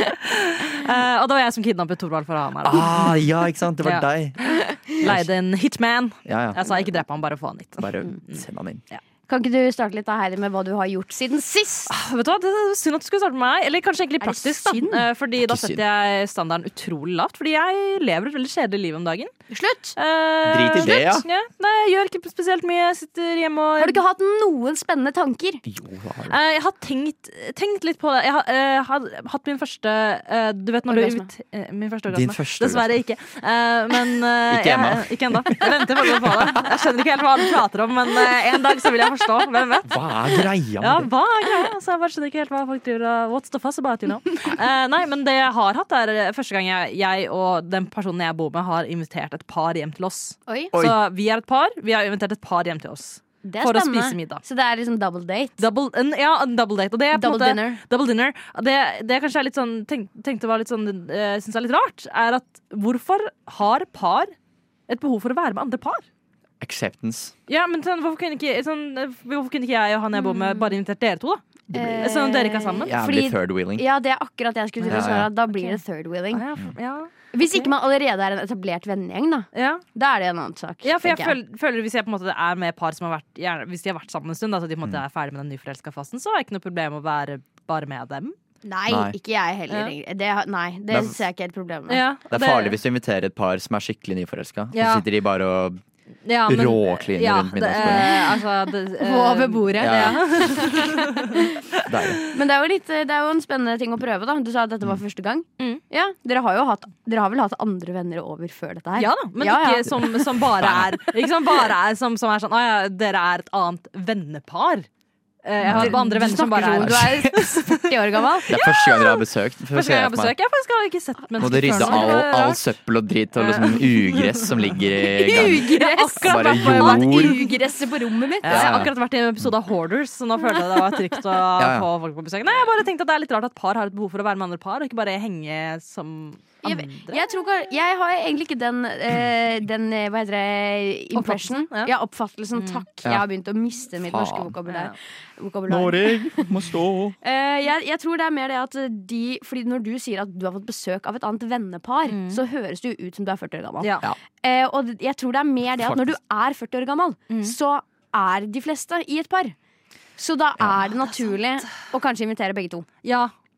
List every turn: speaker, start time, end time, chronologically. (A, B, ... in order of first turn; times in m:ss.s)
0:00.3-0:03.2 A
0:02.6-0:04.4 B
0:03.8-0:09.0 A
0:05.0-0:05.3 B
0:06.2-0:06.6 B
0:07.8-0:08.8 B
0:09.3-0:11.9 C
0:11.9-0:19.3 A
0:14.2-0:15.0 C
0:15.4-0:15.8 B
0:19.5-0:20.0 C
0:20.0-0:24.0 A
0:20.4-0:21.2 B
0:23.8-0:25.6 C
0:25.6-0:26.4 B
0:26.3-0:39.9 A
0:30.9-0:31.3 C
0:32.1-0:32.9 B
0:34.5-0:36.6 B
0:39.8-0:41.1 B
0:40.8-0:54.4 A
0:50.5-0:50.7 C
0:53.4-0:55.6 C
0:55.6-1:04.3 A
0:57.1-0:57.8 C
1:04.9-1:06.0 A
1:06.6-1:07.3 B
1:07.5-1:12.9 A
1:10.1-1:10.7 C
1:11.7-1:12.1 B
1:11.7-1:16.4 C
1:12.8-1:13.8 B
1:14.8-1:15.8 A
1:14.9-1:15.3 B
1:16.3-1:17.7 A
1:17.3-1:21.4 C
1:19.5-1:19.8 A
1:20.8-1:28.3 A
1:28.6-1:32.0 C
1:28.9-1:29.1 B
1:29.7-1:29.9 A
1:30.9-1:31.2 B
1:31.9-1:32.8 A
1:32.3-1:35.8 B
1:34.7-1:35.0 A
1:36.2-1:41.3 A
1:36.5-1:38.2 B
1:39.0-1:41.4 C
1:39.8-1:40.6 B
1:41.8-1:42.2 B
1:42.3-1:49.9 C
1:49.0-1:54.9 A
1:50.6-1:51.0 B
1:55.4-1:57.7 A
1:55.6-1:56.0 B
1:55.7-1:58.5 C
1:56.8-1:57.5 B
1:58.5-2:00.3 B
1:58.5-2:02.6 A
2:01.4-2:05.6 B
2:01.7-2:02.1 C
2:03.4-2:07.4 A
2:05.2-2:08.7 C
2:06.2-2:07.4 B
2:08.4-2:17.2 A
2:08.5-2:08.9 B
2:11.6-2:11.9 B
2:16.6-2:26.5 C
2:21.1-2:21.9 A
2:22.5-2:22.8 A
2:24.0-2:24.5 B
2:24.7-2:25.0 A
2:25.7-2:27.1 B
2:27.2-2:39.6 C
2:32.0-2:32.4 A
2:33.8-2:34.1 A
2:35.8-2:36.1 B
2:37.3-2:37.6 A
2:40.2-2:42.8 C
2:43.0-2:43.3 A